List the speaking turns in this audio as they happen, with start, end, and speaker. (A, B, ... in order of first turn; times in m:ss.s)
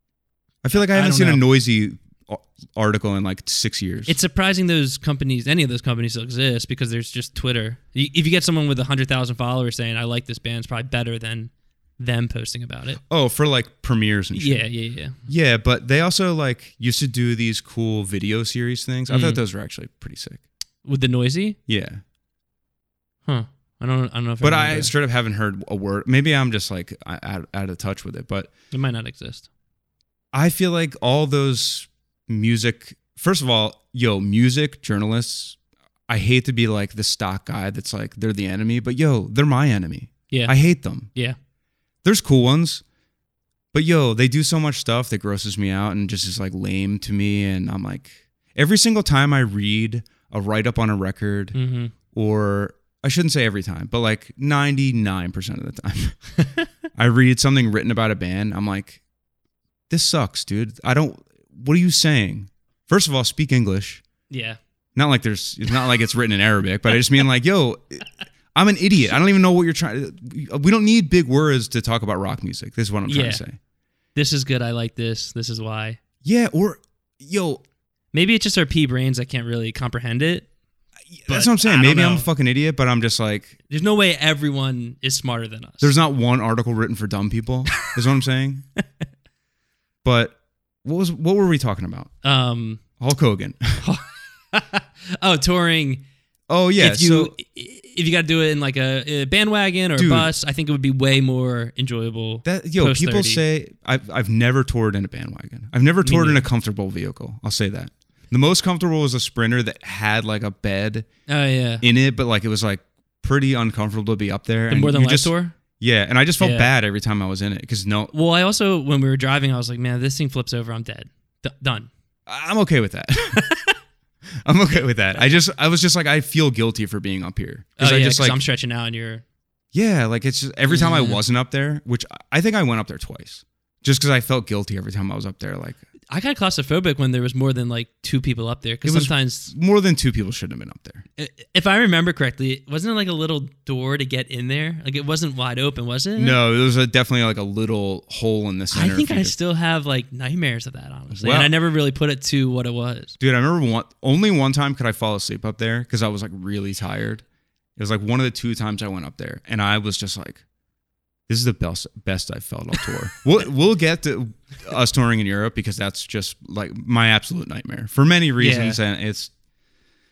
0:00.6-0:04.2 A
0:00.7-0:01.4 B
0:04.1-0:13.0 B
0:13.0-0:14.7 A
0:14.4-0:15.2 B
0:15.2-0:20.4 A
0:19.1-0:19.4 B
0:20.8-0:21.6 B
0:21.7-0:22.0 A
0:23.3-0:24.9 B
0:24.4-0:28.5 A
0:28.7-0:29.5 B
0:30.3-0:35.6 A
0:36.1-0:41.1 A
0:42.0-0:42.8 A
0:43.7-0:51.6 A
0:51.6-0:51.9 B
0:52.1-0:56.2 A
0:56.4-0:56.7 B
0:57.0-0:59.0 A
0:59.9-1:04.0 A
1:04.3-1:04.6 B
1:05.0-1:13.6 A
1:13.1-1:13.4 B
1:14.2-1:16.0 B
1:16.2-1:17.6 A
1:18.1-1:20.5 B
1:21.2-1:23.6 A
1:21.3-1:22.3 B
1:23.7-1:25.9 B
1:25.8-1:28.6 A
1:30.0-1:32.1 A
1:32.2-1:32.8 B
1:33.0-1:33.8 A
1:33.8-1:36.0 B
1:36.5-1:37.4 A
1:36.8-1:43.4 B
1:40.0-1:40.3 A
1:42.4-1:51.1 A
1:46.0-1:46.4 B
1:51.3-1:51.8 B
1:51.8-1:58.1 A
1:54.7-1:55.6 B
1:56.4-1:56.7 B
1:58.1-2:01.9 B
2:02.3-2:03.4 A
2:03.4-2:03.8 B
2:04.4-2:08.4 A
2:07.8-2:09.2 B
2:09.7-2:15.8 A
2:10.7-2:11.2 B
2:16.1-2:19.5 B
2:18.8-2:21.0 A
2:21.2-2:26.4 B
2:26.2-2:29.3 A
2:28.7-2:33.2 B
2:31.1-2:31.5 A
2:33.2-2:37.2 A
2:37.8-2:40.4 A
2:41.3-2:49.3 A
2:48.4-2:48.8 B